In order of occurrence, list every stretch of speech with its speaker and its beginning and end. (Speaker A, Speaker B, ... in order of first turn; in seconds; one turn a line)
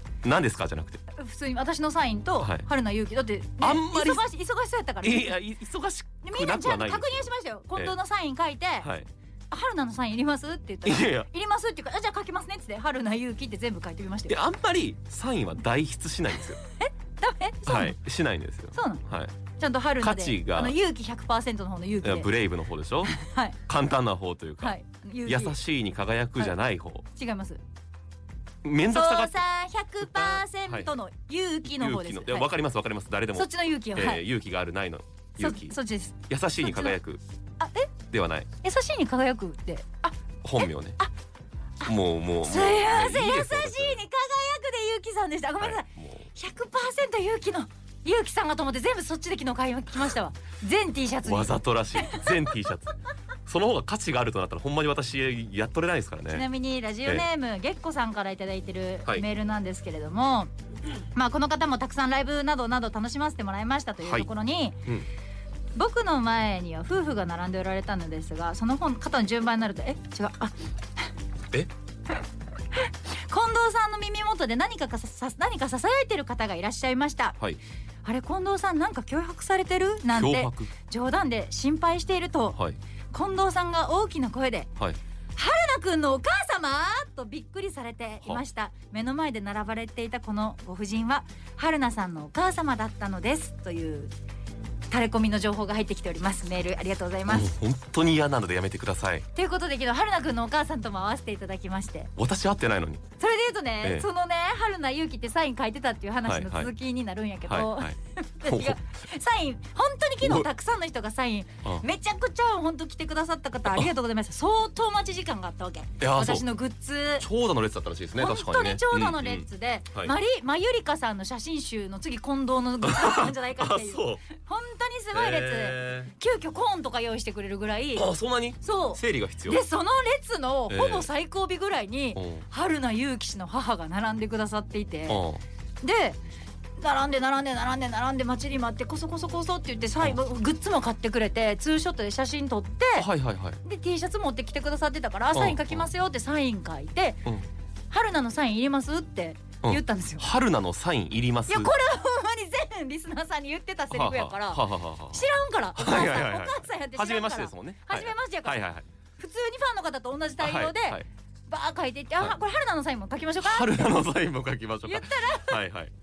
Speaker A: 0.2-1.0
Speaker B: 1.1-5.4
Speaker A: 2.4-2.7
Speaker A: 3.6-4.2
Speaker A: 5.0-7.9
Speaker B: 6.2-8.9
Speaker A: 8.8-9.1
Speaker B: 9.5-14.4
Speaker A: 10.8-11.3
Speaker A: 14.3-16.6
Speaker B: 16.6-18.0
Speaker A: 17.7-19.3
Speaker B: 18.7-19.0
Speaker B: 19.6-22.3
Speaker A: 20.0-20.7
Speaker A: 22.0-23.1
Speaker B: 23.1-23.6
Speaker A: 23.7-24.7
Speaker B: 24.6-25.6
Speaker A: 25.3-27.1
Speaker B: 27.1-27.6
Speaker A: 28.6-29.4
Speaker B: 28.9-32.5
Speaker A: 30.0-30.9
Speaker A: 31.6-35.8
Speaker B: 33.3-34.2
Speaker B: 35.4-37.0
Speaker A: 36.3-37.2
Speaker B: 37.6-37.9
Speaker A: 38.1-38.5
Speaker B: 38.6-41.1
Speaker A: 40.4-41.0
Speaker A: 41.8-44.0
Speaker B: 42.4-52.3
Speaker A: 45.6-46.3
Speaker A: 51.2-52.9
Speaker A: 53.5-56.5
Speaker B: 56.3-60.5
Speaker B: 61.1-64.8
Speaker A: 64.0-64.3
Speaker B: 65.8-70.5
Speaker B: 72.7-77.4
Speaker B: 78.0-82.6
Speaker A: 80.1-80.7
Speaker B: 83.1-84.7
Speaker B: 85.3-94.1
Speaker B: 94.9-97.5
Speaker A: 97.3-99.3
Speaker B: 99.3-102.1
Speaker A: 102.2-103.0
Speaker B: 103.2-117.2
Speaker A: 106.3-106.7
Speaker A: 107.5-107.9
Speaker A: 108.5-108.8
Speaker A: 110.2-110.5
Speaker A: 116.0-116.5
Speaker A: 117.2-120.1
Speaker B: 118.2-128.1
Speaker A: 122.8-124.2
Speaker A: 125.1-126.1
Speaker A: 128.0-129.6
Speaker B: 128.6-135.2
Speaker A: 130.7-131.1
Speaker A: 132.2-132.4
Speaker A: 135.1-135.4
Speaker B: 135.8-136.2
Speaker B: 136.8-143.1
Speaker A: 143.0-143.6
Speaker B: 143.6-147.2
Speaker A: 145.3-145.9
Speaker B: 147.9-150.3
Speaker A: 149.6-151.7
Speaker B: 151.5-154.6
Speaker A: 153.9-158.8
Speaker B: 155.1-158.6
Speaker B: 159.2-164.0
Speaker A: 160.4-161.0
Speaker A: 163.4-165.9
Speaker B: 164.8-165.6